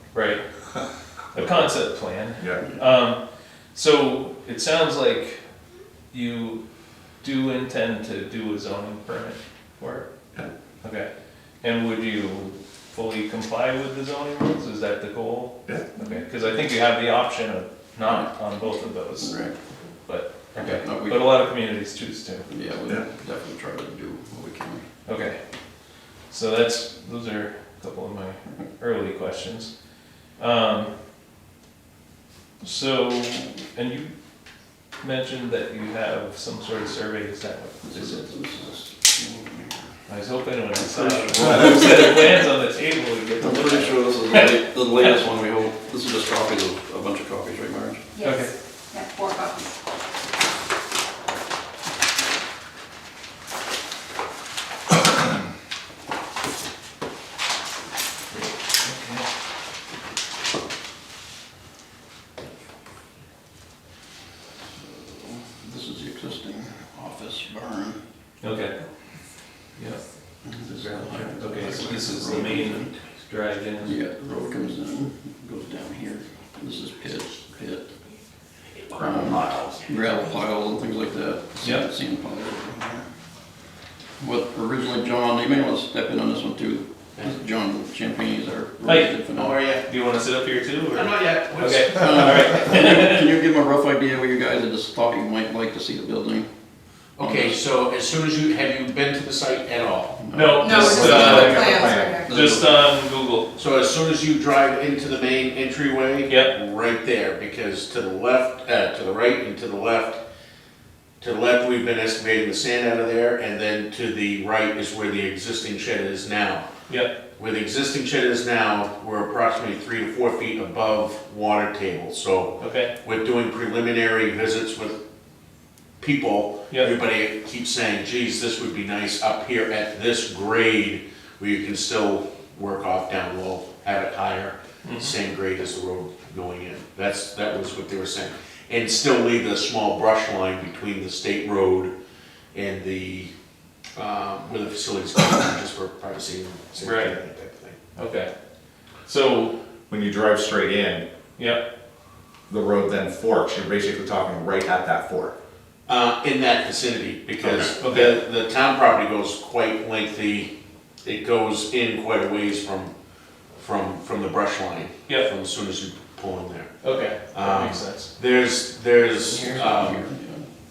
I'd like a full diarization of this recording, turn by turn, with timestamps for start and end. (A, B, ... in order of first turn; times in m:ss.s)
0:00.1-0:00.4 A
0:01.3-0:03.2 A
0:01.4-0:01.6 B
0:02.4-0:02.7 B
0:03.7-0:05.4 A
0:06.1-0:06.6 A
0:07.2-0:10.1 A
0:10.8-0:11.1 A
0:11.6-0:19.4 A
0:18.0-0:18.3 C
0:19.2-0:19.6 C
0:20.0-0:22.5 A
0:20.6-0:21.4 C
0:22.5-0:24.8 C
0:25.0-0:25.4 A
0:26.3-0:29.7 A
0:30.4-0:30.9 A
0:32.6-0:34.1 A
0:35.0-0:38.3 A
0:37.9-0:39.8 C
0:40.1-0:44.5 A
0:40.8-0:42.2 C
0:43.4-0:48.0 C
0:48.1-0:49.8 D
0:48.2-0:48.5 A
0:58.8-0:59.2 A
1:04.7-1:08.0 C
1:08.4-1:08.8 A
1:09.8-1:10.0 A
1:10.4-1:12.9 C
1:11.2-1:14.0 A
1:13.8-1:17.8 C
1:19.0-1:23.0 C
1:19.2-1:19.8 E
1:24.2-1:29.6 C
1:28.8-1:29.2 A
1:29.3-1:29.8 E
1:29.8-1:33.3 A
1:30.9-1:32.4 E
1:31.9-1:36.5 C
1:37.2-1:37.6 C
1:37.2-1:40.2 E
1:40.2-1:42.7 C
1:40.3-1:43.5 A
1:40.6-1:42.4 D
1:40.7-1:42.2 B
1:43.6-1:50.2 E
1:46.3-1:46.5 A
1:51.2-1:56.7 E
1:56.9-1:57.1 A
1:57.4-2:05.0 E
2:02.6-2:02.9 A
2:06.0-2:21.9 E
2:14.8-2:15.1 A
2:22.5-2:23.3 E
2:23.9-2:27.8 E
2:26.8-2:27.1 A
2:28.0-2:28.3 A
2:29.0-2:29.6 A
2:29.9-2:31.0 B
2:32.5-2:35.3 B
2:35.8-2:40.5 E
2:37.8-2:38.2 A
2:41.0-2:42.9 E
2:43.6-2:46.7 E
2:46.8-2:48.1 A
2:47.3-2:50.0 E
2:49.2-2:50.4 C